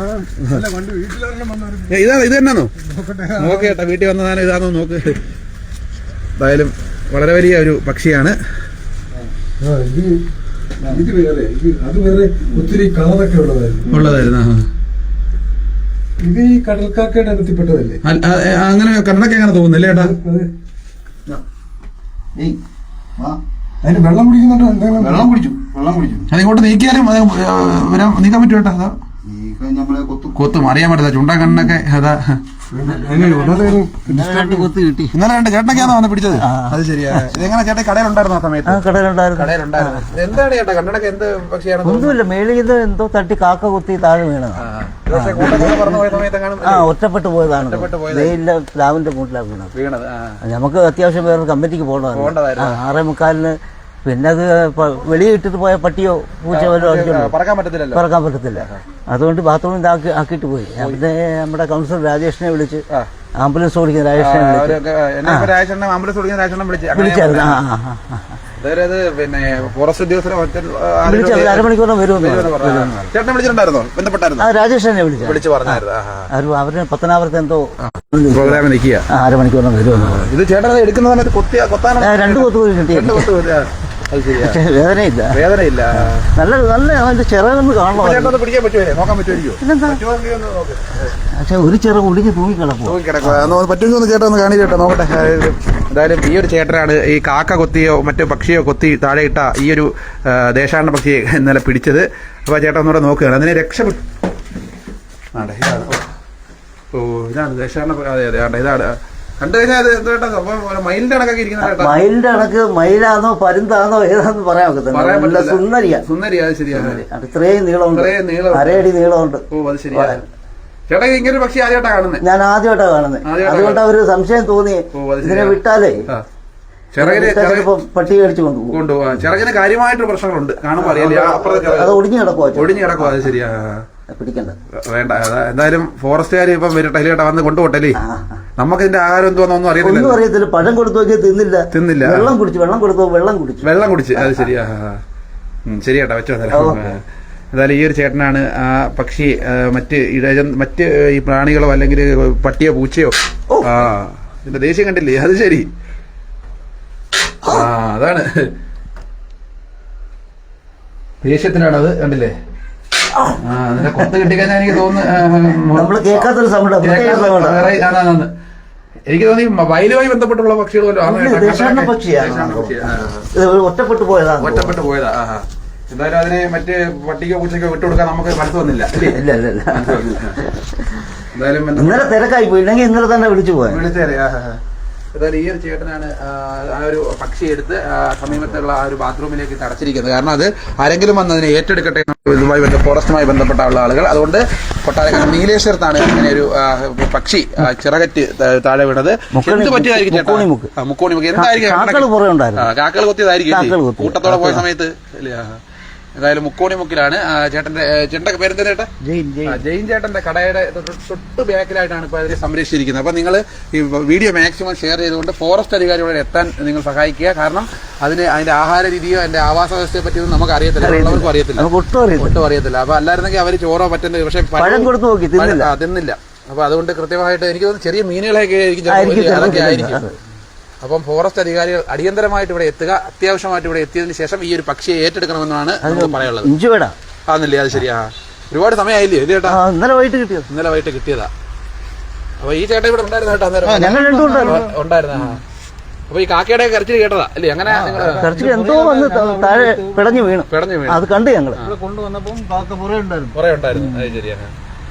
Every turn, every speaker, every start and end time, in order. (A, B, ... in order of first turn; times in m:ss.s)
0:00.1-0:00.7 A
0:00.4-0:00.7 B
0:00.8-0:01.9 C
0:01.8-0:05.2 B
0:06.4-0:08.4 B
0:09.6-0:10.2 C
0:10.9-0:13.9 C
0:13.9-0:14.7 B
0:16.2-0:18.0 C
0:18.0-0:20.2 B
0:20.2-0:20.5 C
0:23.8-0:25.2 C
0:24.9-0:26.3 A
0:26.3-0:29.0 B
0:29.2-0:30.4 A
0:30.3-0:32.6 B
0:32.8-0:34.3 C
0:32.8-0:33.7 A
0:33.0-0:35.2 D
0:35.1-0:42.2 B
0:36.4-0:37.5 D
0:38.7-0:40.2 D
0:41.8-0:49.7 D
0:44.6-0:46.9 B
0:47.6-0:48.4 B
0:49.7-0:50.4 B
0:50.4-0:57.3 D
0:52.1-0:52.8 B
0:56.5-0:58.0 B
0:57.9-1:02.8 D
0:58.6-0:58.8 B
1:00.8-1:01.0 B
1:03.4-1:05.5 D
1:04.2-1:07.6 B
1:06.9-1:08.4 D
1:08.6-1:14.5 B
1:11.0-1:13.1 D
1:14.4-1:20.3 D
1:15.2-1:16.3 B
1:17.8-1:19.1 B
1:19.9-1:24.6 B
1:22.0-1:23.3 D
1:24.3-1:25.4 D
1:25.3-1:26.3 B
1:25.9-1:28.4 D
1:27.9-1:31.2 B
1:29.5-1:30.0 D
1:31.2-1:33.6 D
1:32.8-1:44.0 B
1:45.3-1:46.0 B
1:46.9-1:52.0 B
1:51.6-1:56.1 D
1:54.9-1:57.0 B
1:56.7-2:00.2 D
1:57.9-1:58.9 B
1:59.5-2:00.2 B
2:00.9-2:02.2 B
2:02.2-2:06.0 D
2:03.2-2:03.8 B
2:04.9-2:06.2 B
2:06.9-2:07.7 B
2:07.0-2:08.8 D
2:08.7-2:12.0 B
2:10.8-2:13.2 D
2:12.6-2:13.9 B
2:14.1-2:14.6 D
2:14.8-2:18.0 B
2:18.0-2:18.4 D
2:18.6-2:20.2 B
2:19.8-2:24.5 D
2:21.7-2:22.3 B
2:23.6-2:25.0 B
2:25.7-2:35.7 B
2:26.5-2:26.9 D
2:33.5-2:33.8 D
2:37.4-2:38.5 B
2:41.2-2:42.3 B
2:43.2-2:44.8 D
2:43.4-2:46.3 B
2:45.7-2:47.8 D
2:46.8-2:48.3 B
2:49.1-2:53.3 B
2:51.0-2:54.8 D
2:54.4-3:00.4 B
2:58.9-3:01.1 D
3:01.3-3:02.2 B
3:01.7-3:03.9 D
3:03.7-3:04.6 B
3:05.1-3:25.6 B
3:19.3-3:20.7 D
3:21.3-3:22.7 D
3:23.5-3:24.7 D
3:26.2-3:28.9 B
3:29.0-3:29.6 D
3:29.5-3:50.0 B
3:40.8-3:42.4 D
3:44.5-3:45.7 D
3:48.9-3:50.2 D
3:50.8-3:56.5 B
3:55.8-3:57.0 D
3:57.3-3:59.6 B
3:59.4-4:00.5 D
4:00.5-4:01.3 B
4:02.4-4:05.4 B
4:03.6-4:04.8 A
4:03.9-4:04.6 D
4:06.1-4:08.3 B
4:07.6-4:10.3 A
4:08.2-4:11.7 D
4:10.5-4:11.0 B
4:11.6-4:13.4 A
4:13.3-4:14.5 B